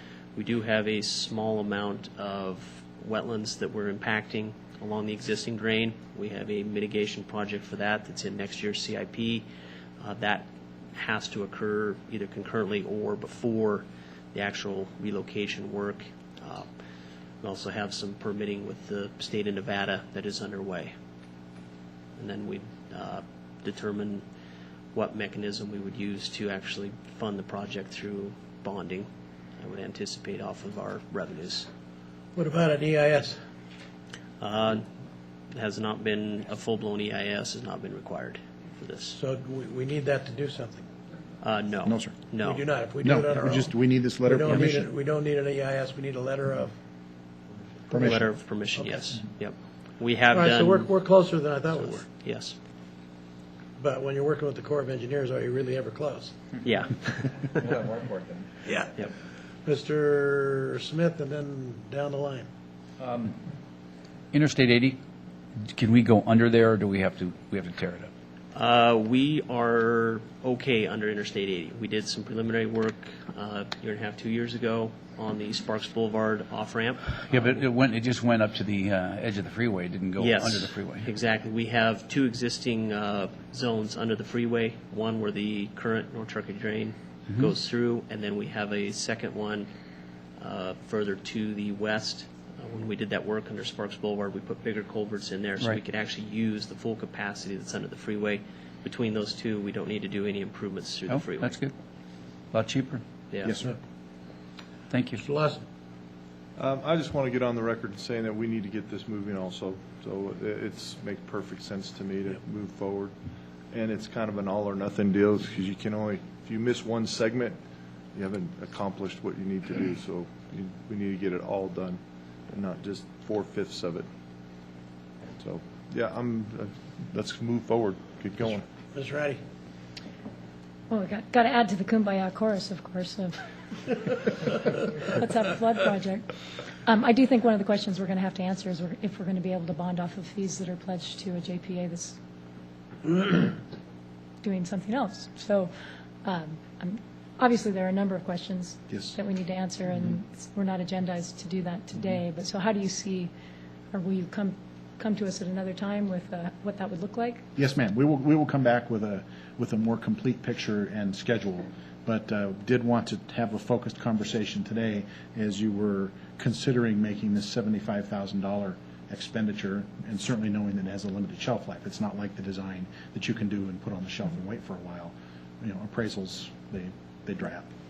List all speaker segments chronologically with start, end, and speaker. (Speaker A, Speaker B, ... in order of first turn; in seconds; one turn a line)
Speaker A: 0.3-9.4
Speaker A: 10.0-16.7
Speaker A: 17.4-20.9
Speaker A: 22.2-24.2
Speaker A: 24.9-29.1
Speaker A: 29.6-31.7
Speaker B: 32.4-33.4
Speaker A: 34.4-34.8
Speaker A: 35.5-39.2
Speaker B: 39.1-40.8
Speaker A: 41.4-42.6
Speaker C: 41.8-42.2
Speaker B: 42.4-46.7
Speaker C: 43.0-44.9
Speaker C: 47.9-48.3
Speaker A: 47.9-50.9
Speaker B: 50.3-52.0
Speaker A: 51.7-52.5
Speaker B: 53.8-56.3
Speaker A: 56.6-57.7
Speaker B: 58.6-58.9
Speaker B: 59.6-62.5
Speaker D: 64.3-65.0
Speaker D: 65.7-68.1
Speaker A: 68.5-77.2
Speaker D: 77.3-81.1
Speaker A: 80.2-89.7
Speaker A: 90.4-101.6
Speaker D: 101.1-101.7
Speaker D: 102.5-103.0
Speaker A: 103.3-103.6
Speaker B: 105.2-105.6
Speaker E: 106.6-113.1
Speaker E: 113.7-117.6
Speaker E: 118.1-124.1
Speaker E: 125.4-128.6
Speaker B: 128.9-129.4
Speaker F: 130.9-133.3
Speaker F: 133.9-136.3
Speaker F: 136.8-142.2
Speaker F: 144.4-145.7
Speaker F: 146.2-153.3
Speaker F: 153.9-157.4
Speaker C: 157.6-177.7